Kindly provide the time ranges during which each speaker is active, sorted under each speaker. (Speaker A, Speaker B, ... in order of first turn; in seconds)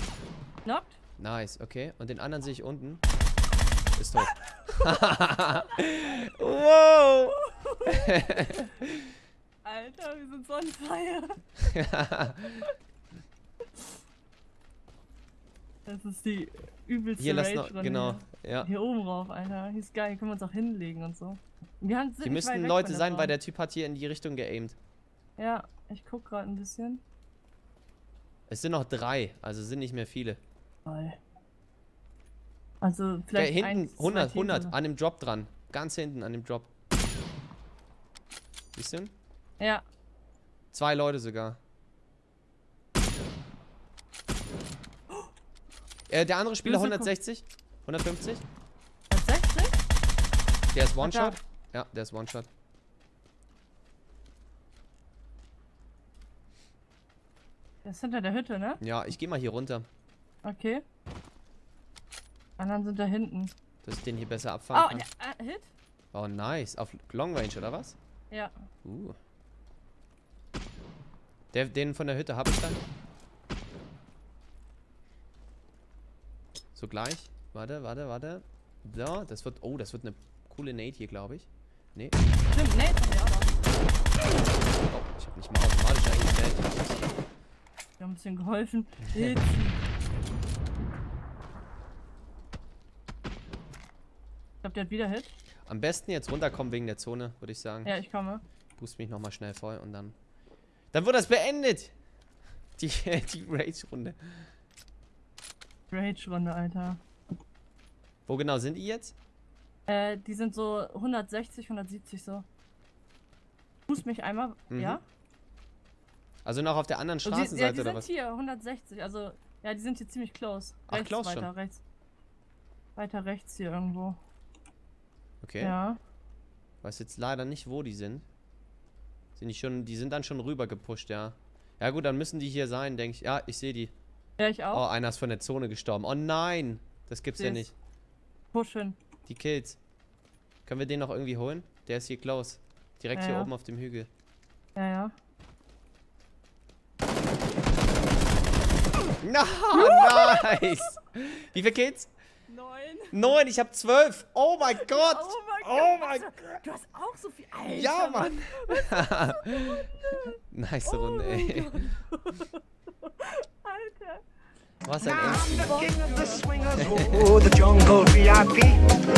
Speaker A: 0.7-1.0, 5.8-6.2, 7.3-8.7, 9.7-11.8, 15.9-23.4, 25.4-27.0, 30.9-31.2, 32.8-34.8, 46.6-47.1, 49.1-49.8, 51.0-51.4, 57.8-58.8, 60.4-60.8, 62.6-63.5, 64.7-65.7, 68.3-68.6, 82.5-83.6, 88.0-89.8, 94.6-95.3, 97.8-98.4, 105.9-107.0, 109.9-112.5, 113.9-115.0, 117.2-121.8, 123.0-124.2, 125.6-126.0, 134.4-134.9, 137.4-137.7, 138.5-139.0, 143.1-143.5, 144.8-145.1, 149.7-150.8, 152.5-153.4, 154.7-164.2, 165.6-166.7, 167.8-168.0
Speaker B: 1.2-3.0, 4.0-7.4, 7.9-9.0, 11.8-12.6, 17.2-18.7, 22.2-24.8, 28.5-30.4, 33.4-36.7, 38.8-39.1, 40.7-41.6, 46.1-48.4, 50.7-52.5, 58.8-59.9, 63.8-65.0, 66.1-68.0, 68.8-69.2, 71.5-72.8, 76.8-82.2, 84.9-87.2, 95.7-97.9, 98.8-100.2, 100.9-101.9, 102.8-104.5, 108.3-109.2, 114.7-115.0, 116.4-118.1, 120.9-121.5, 125.4-125.8, 126.8-128.2, 129.4-133.9, 134.7-137.8, 139.3-139.8, 140.7-144.1, 149.2-152.1, 153.1-156.6, 157.7-159.9, 160.5-162.0, 164.8-165.9, 166.7-167.3
Speaker C: 166.9-168.9